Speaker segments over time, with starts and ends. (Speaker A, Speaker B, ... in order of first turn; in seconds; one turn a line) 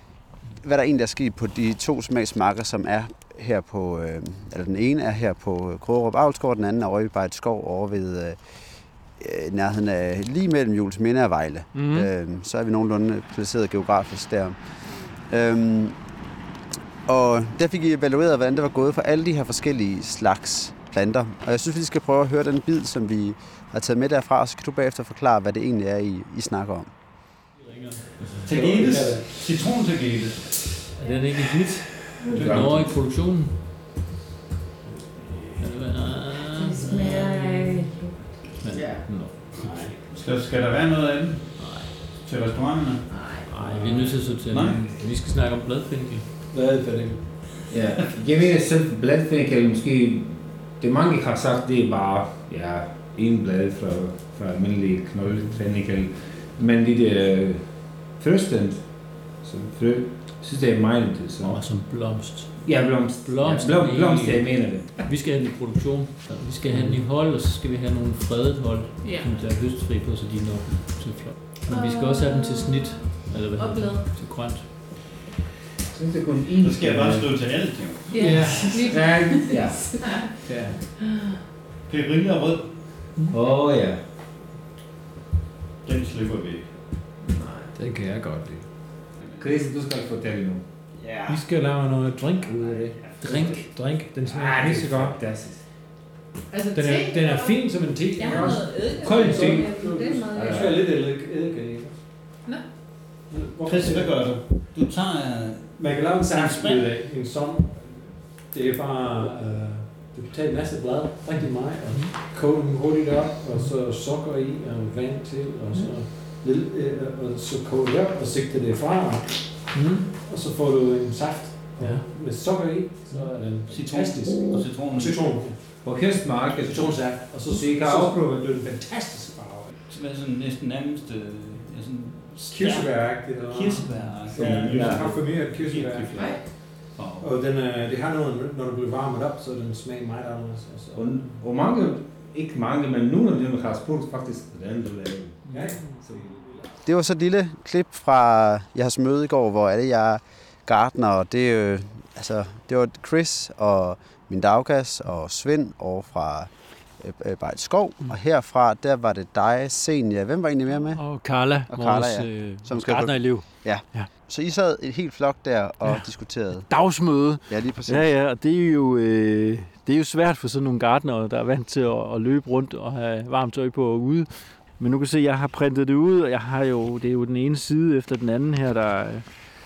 Speaker A: 0.5-16.0
Speaker B: 11.7-12.1
Speaker A: 17.1-26.9
Speaker B: 27.7-28.4
Speaker C: 28.4-30.8
Speaker D: 28.5-29.4
Speaker B: 31.0-33.7
Speaker E: 32.2-32.5
Speaker F: 32.3-33.0
Speaker B: 35.6-37.8
Speaker E: 36.4-38.4
Speaker B: 38.6-40.0
Speaker F: 38.7-40.0
Speaker C: 40.0-44.9
Speaker B: 41.6-41.9
Speaker E: 43.1-43.4
Speaker B: 43.4-46.3
Speaker D: 46.5-47.7
Speaker F: 47.7-65.0
Speaker B: 61.4-74.9
Speaker F: 66.7-67.1
Speaker E: 69.0-69.4
Speaker E: 71.7-74.1
Speaker F: 75.9-77.4
Speaker C: 76.6-78.7
Speaker E: 78.1-80.4
Speaker D: 78.2-79.0
Speaker F: 78.2-79.9
Speaker D: 80.5-80.8
Speaker E: 81.0-81.4
Speaker C: 81.9-83.1
Speaker F: 83.3-84.1
Speaker C: 85.8-86.9
Speaker F: 87.4-87.7
Speaker D: 87.8-88.7
Speaker F: 89.2-91.5
Speaker D: 91.3-95.2
Speaker F: 92.5-95.7
Speaker B: 93.2-93.7
Speaker E: 96.5-97.6
Speaker D: 96.7-102.3
Speaker E: 98.2-100.7
Speaker F: 98.5-99.7
Speaker F: 100.3-100.7
Speaker D: 103.3-104.7
Speaker C: 103.7-106.9
Speaker D: 105.8-129.7
Speaker B: 111.4-112.1
Speaker B: 119.7-120.0
Speaker B: 121.8-122.1
Speaker C: 123.7-125.6
Speaker F: 125.8-127.1
Speaker F: 127.7-128.3
Speaker C: 129.9-137.3
Speaker D: 132.4-141.4
Speaker F: 134.3-135.2
Speaker E: 136.1-136.4
Speaker F: 140.9-146.4
Speaker B: 145.4-145.9
Speaker D: 145.5-146.3
Speaker A: 146.8-168.1
Speaker B: 160.9-164.1
Speaker B: 165.8-179.3